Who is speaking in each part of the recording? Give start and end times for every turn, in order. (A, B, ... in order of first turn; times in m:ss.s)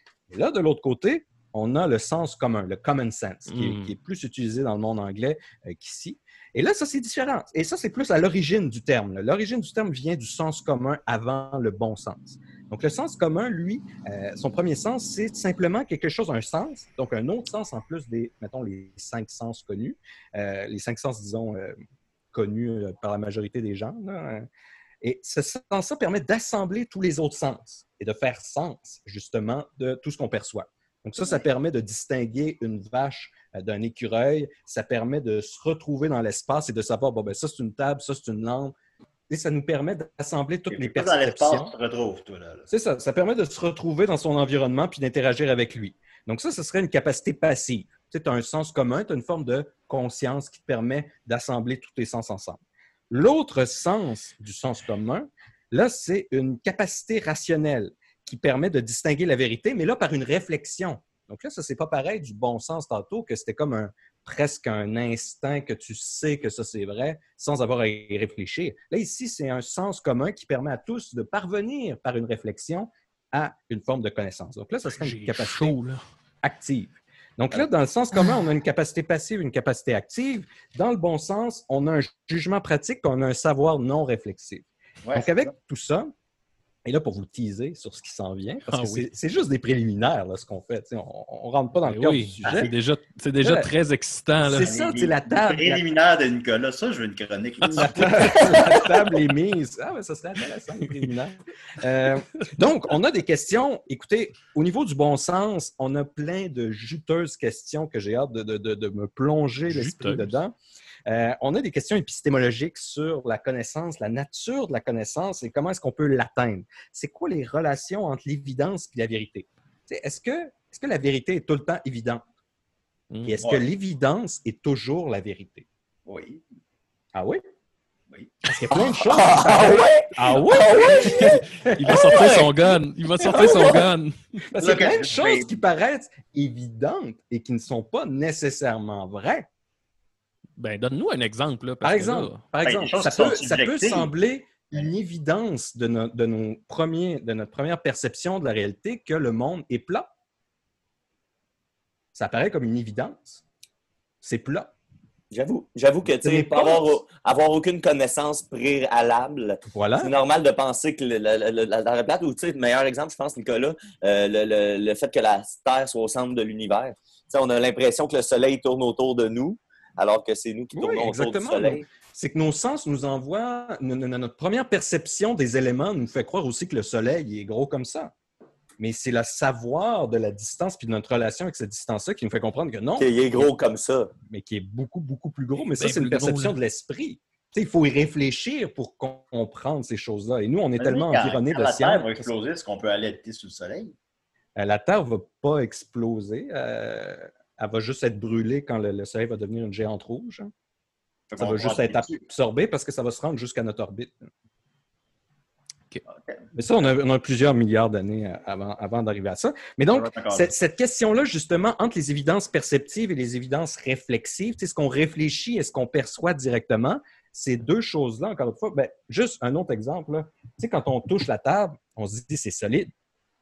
0:00.3-0:21.8 A
0:03.5-0:03.9 B
0:22.3-0:24.5 A
0:25.0-0:38.8 A
0:39.3-0:41.7 A
0:40.7-0:42.7 C
0:42.7-1:15.8 A
1:14.9-1:16.0 B
1:16.4-1:26.1 A
1:25.0-1:25.5 C
1:26.8-1:32.7 A
1:28.7-1:29.1 B
1:31.8-1:34.7 B
1:33.4-1:33.7 A
1:34.4-1:35.8 A
1:34.6-1:38.8 C
1:37.7-1:50.6 A
1:49.7-1:50.3 B
1:51.1-2:02.2 A
2:03.1-2:03.4 B
2:03.2-2:05.7 A
2:06.1-2:06.4 C
2:07.1-2:07.4 A
2:08.1-2:08.4 C
2:08.5-2:12.5 A
2:08.7-2:11.4 D
2:10.9-2:14.2 B
2:12.1-2:12.4 D
2:13.2-2:13.8 A
2:14.5-2:19.5 A
2:14.6-2:15.5 C
2:20.6-2:22.4 B
2:21.8-2:30.1 A
2:22.6-2:24.1 C
2:32.1-2:33.4 A
2:34.2-2:34.7 A
2:35.3-2:51.8 D
2:36.1-2:37.0 A
2:39.7-2:40.1 A
2:50.7-2:58.1 A
2:58.8-3:03.5 A
3:03.0-3:04.1 D
3:04.3-3:12.3 A
3:05.8-3:06.6 B
3:10.8-3:13.9 C
3:14.6-3:20.5 A
3:21.3-3:22.2 C
3:21.4-3:24.3 A
3:26.1-3:26.4 C
3:26.5-3:42.9 A
3:29.9-3:30.5 C